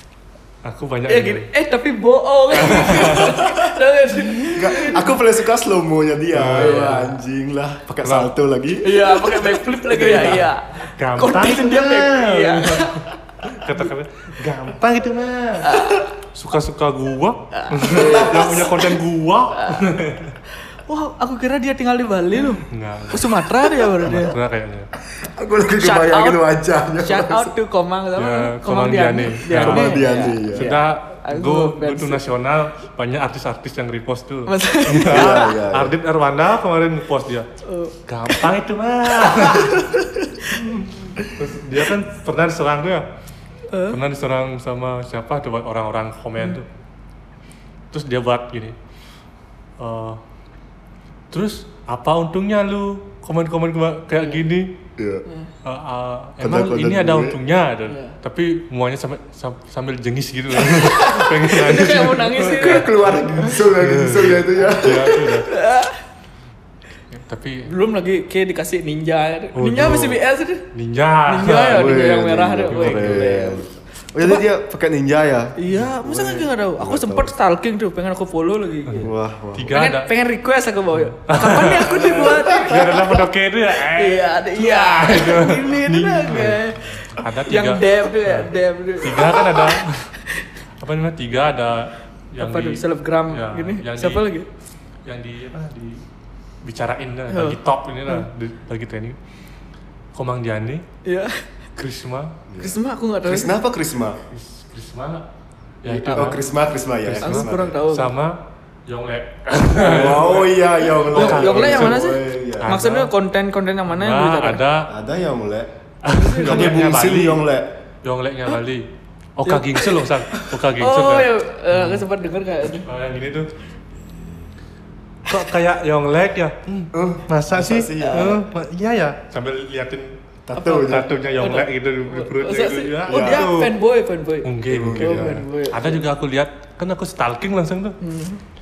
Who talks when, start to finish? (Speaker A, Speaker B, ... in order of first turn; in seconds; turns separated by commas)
Speaker A: 0.6-1.5, Speaker B: 1.1-5.2, Speaker A: 2.5-3.5, Speaker C: 4.5-9.6, Speaker A: 6.3-7.1, Speaker B: 6.5-7.2, Speaker A: 8.0-8.3, Speaker B: 8.8-13.8, Speaker A: 9.9-20.4, Speaker B: 15.6-16.1, Speaker B: 17.5-19.0, Speaker B: 19.5-19.9, Speaker B: 20.7-24.4, Speaker A: 22.7-23.4, Speaker A: 24.0-24.9, Speaker C: 25.1-27.5, Speaker B: 25.8-26.4, Speaker B: 27.0-32.2, Speaker A: 28.2-37.5, Speaker C: 29.5-30.8, Speaker B: 34.5-35.6, Speaker C: 35.0-36.0, Speaker B: 37.6-38.5, Speaker A: 38.1-39.9, Speaker B: 39.1-40.6, Speaker A: 40.5-43.0, Speaker B: 43.7-44.0, Speaker A: 43.9-46.7, Speaker A: 47.9-48.8, Speaker A: 49.8-50.2, Speaker A: 51.3-54.8, Speaker C: 55.0-55.3, Speaker B: 55.2-55.5, Speaker A: 55.6-65.5, Speaker C: 56.4-57.4, Speaker B: 57.9-58.2, Speaker B: 60.6-63.1, Speaker C: 62.5-65.4, Speaker B: 65.4-66.0, Speaker A: 67.1-67.7, Speaker B: 67.7-70.7, Speaker A: 69.5-70.2, Speaker A: 70.7-71.9, Speaker B: 71.3-73.7, Speaker C: 71.6-77.3, Speaker A: 72.7-73.3, Speaker B: 75.6-79.1, Speaker A: 78.9-80.1, Speaker C: 79.0-79.7, Speaker B: 79.7-90.5, Speaker A: 80.9-90.1, Speaker A: 90.8-94.3, Speaker B: 92.4-94.5, Speaker A: 95.0-96.0, Speaker A: 96.6-99.2, Speaker B: 97.3-98.3, Speaker A: 100.1-100.8, Speaker B: 101.0-101.5, Speaker A: 101.8-102.4, Speaker C: 102.5-104.2, Speaker B: 102.6-103.6, Speaker A: 104.3-105.3, Speaker A: 105.8-106.5, Speaker C: 105.9-107.8, Speaker B: 106.0-106.4, Speaker A: 107.0-112.0, Speaker B: 107.2-108.1, Speaker C: 109.8-112.8, Speaker B: 111.0-114.6, Speaker A: 112.6-113.1, Speaker A: 113.9-114.9, Speaker C: 114.9-115.7, Speaker A: 116.0-117.4, Speaker B: 116.1-116.8, Speaker C: 116.4-117.7, Speaker A: 118.0-122.0, Speaker B: 119.5-120.1, Speaker B: 120.8-122.9, Speaker A: 122.8-123.5, Speaker A: 125.3-130.2, Speaker C: 126.9-128.4, Speaker B: 128.0-128.4, Speaker C: 130.5-131.1, Speaker B: 130.6-136.1, Speaker A: 130.7-133.7, Speaker C: 133.1-133.5, Speaker A: 134.4-138.0, Speaker C: 134.7-135.4, Speaker B: 138.0-138.4